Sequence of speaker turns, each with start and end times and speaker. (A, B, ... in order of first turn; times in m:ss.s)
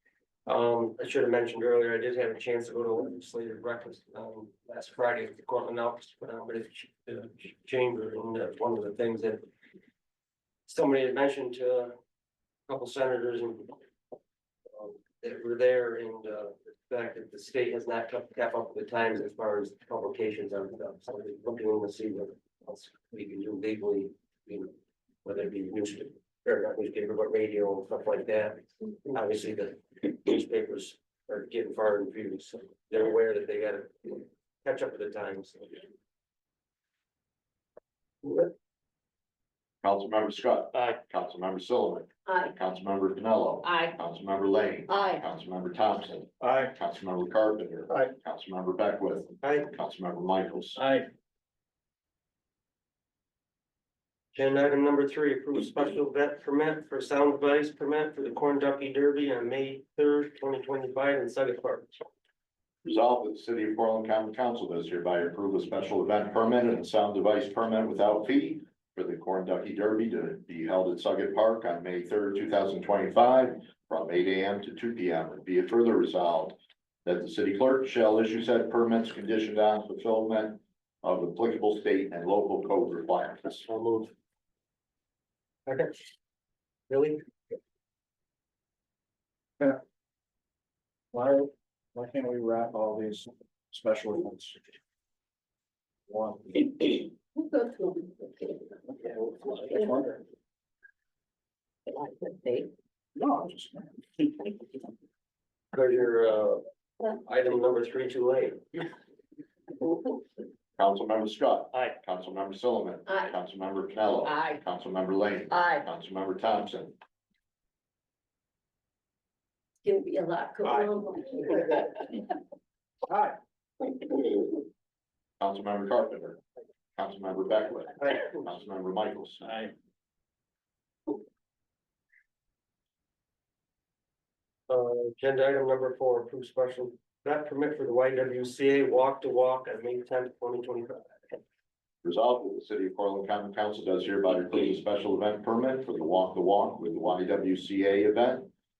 0:00.4-0:09.5 A
0:10.7-0:12.0 A
0:12.7-0:13.8 A
0:14.7-0:35.8 A
0:38.2-0:38.5 A
0:39.8-0:50.8 B
0:42.2-0:42.5 C
0:43.6-0:44.0 C
0:44.9-0:45.2 C
0:49.4-0:49.7 A
0:54.3-1:01.9 A
1:02.8-1:23.7 B
1:23.7-1:24.1 A
1:25.6-1:26.1 A
1:26.9-1:27.2 A
1:31.1-1:34.6 D
1:36.1-1:37.0 D
1:37.3-1:38.7 C
1:39.0-1:40.2 D
1:41.9-1:42.7 C
1:43.2-1:44.4 D
1:45.7-1:48.8 A
1:50.8-1:57.0 B
1:53.1-1:53.3 C
1:54.2-1:54.6 C
1:55.5-1:55.8 C
1:59.8-2:02.0 C
2:05.4-2:06.4 B
2:07.0-2:09.6 B
2:08.0-2:08.5 A
2:14.7-2:21.4 A
2:22.0-2:28.5 B